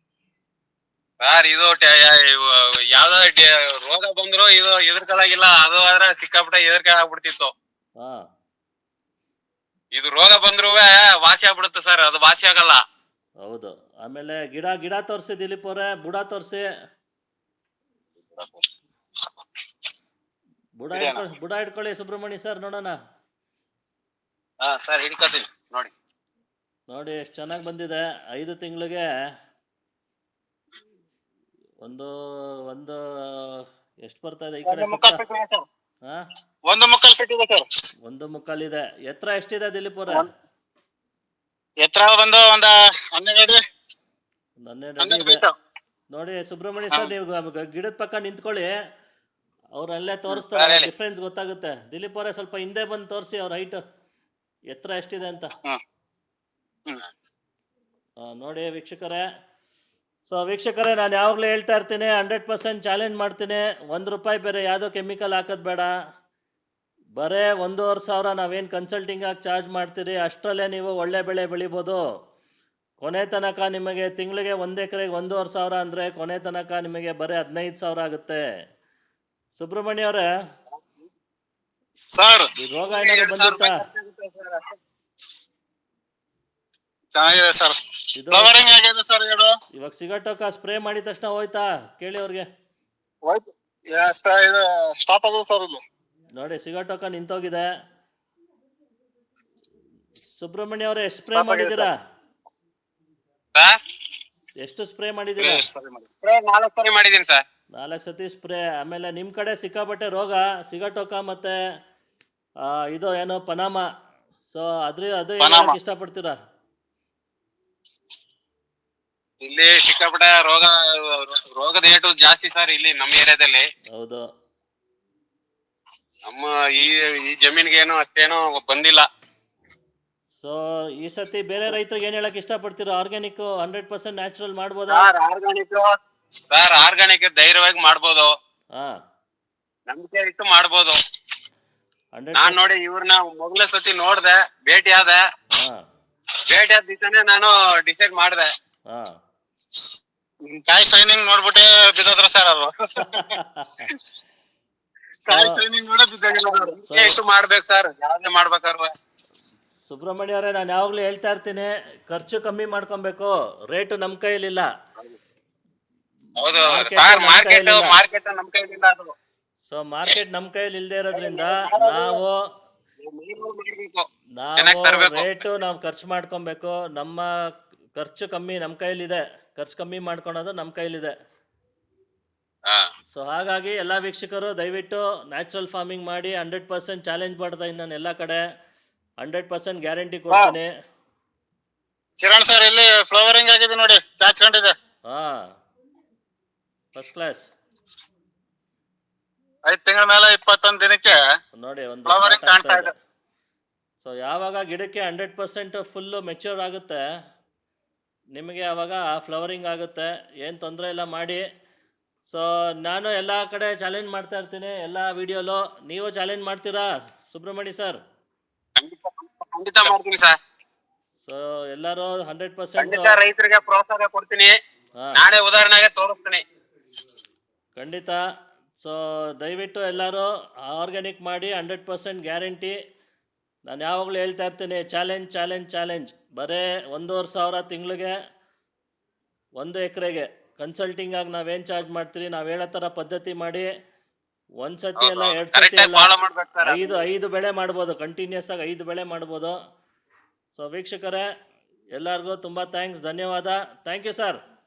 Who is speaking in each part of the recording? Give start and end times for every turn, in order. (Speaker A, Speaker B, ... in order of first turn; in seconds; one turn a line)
Speaker A: 1.2-7.5
Speaker B: 8.0-8.2
Speaker A: 9.9-12.8
Speaker B: 13.4-16.6
Speaker A: 18.3-18.6
Speaker B: 20.8-22.9
Speaker C: 20.9-21.2
Speaker A: 24.6-25.9
Speaker B: 26.9-29.1
Speaker B: 31.8-32.1
Speaker B: 32.7-35.2
Speaker C: 34.6-35.6
Speaker C: 36.7-37.6
Speaker B: 38.0-40.3
Speaker C: 41.8-43.6
Speaker B: 44.6-45.4
Speaker C: 45.0-45.5
Speaker B: 46.1-48.7
Speaker B: 49.8-53.8
Speaker A: 50.3-50.9
Speaker B: 54.7-55.5
Speaker B: 58.2-59.2
Speaker B: 60.3-65.9
Speaker B: 67.2-72.0
Speaker B: 73.0-78.4
Speaker B: 79.5-80.3
Speaker C: 82.1-82.5
Speaker B: 82.6-83.8
Speaker A: 82.8-84.7
Speaker C: 87.1-87.8
Speaker B: 88.2-88.5
Speaker C: 88.3-89.5
Speaker B: 89.8-92.5
Speaker C: 93.2-95.8
Speaker B: 96.3-97.7
Speaker B: 100.3-101.9
Speaker C: 101.3-101.9
Speaker B: 104.6-105.6
Speaker C: 105.4-106.1
Speaker A: 106.2-107.4
Speaker B: 107.8-111.6
Speaker B: 112.6-113.8
Speaker B: 114.5-116.3
Speaker C: 115.4-115.8
Speaker A: 119.4-123.6
Speaker B: 123.9-124.2
Speaker A: 126.3-129.0
Speaker B: 130.3-135.1
Speaker A: 134.9-136.0
Speaker A: 136.5-138.3
Speaker A: 139.9-140.9
Speaker B: 142.2-142.6
Speaker A: 142.3-145.2
Speaker B: 145.5-145.8
Speaker A: 146.5-148.5
Speaker B: 148.9-149.2
Speaker C: 150.4-153.3
Speaker B: 153.1-153.8
Speaker C: 155.2-156.7
Speaker B: 155.3-155.6
Speaker A: 156.3-158.9
Speaker B: 156.9-157.2
Speaker B: 159.8-164.7
Speaker A: 166.4-169.1
Speaker B: 166.5-168.0
Speaker B: 169.7-172.4
Speaker C: 171.2-172.0
Speaker A: 173.0-174.0
Speaker B: 174.4-177.3
Speaker A: 174.6-175.4
Speaker B: 177.9-181.1
Speaker B: 183.1-188.4
Speaker B: 189.2-190.7
Speaker C: 190.3-190.6
Speaker C: 192.2-194.7
Speaker B: 195.1-195.4
Speaker B: 196.9-197.5
Speaker C: 199.7-201.2
Speaker B: 201.6-202.9
Speaker C: 202.1-202.9
Speaker B: 204.0-207.0
Speaker B: 208.3-211.4
Speaker B: 212.3-218.0
Speaker A: 218.8-220.3
Speaker B: 221.2-223.2
Speaker A: 222.8-224.5
Speaker A: 225.1-226.4
Speaker B: 227.8-228.2
Speaker B: 228.8-232.7
Speaker B: 233.7-238.2
Speaker B: 239.6-243.7
Speaker B: 244.6-246.1
Speaker A: 245.0-246.9
Speaker B: 246.6-249.6
Speaker B: 250.5-251.2
Speaker B: 251.9-254.4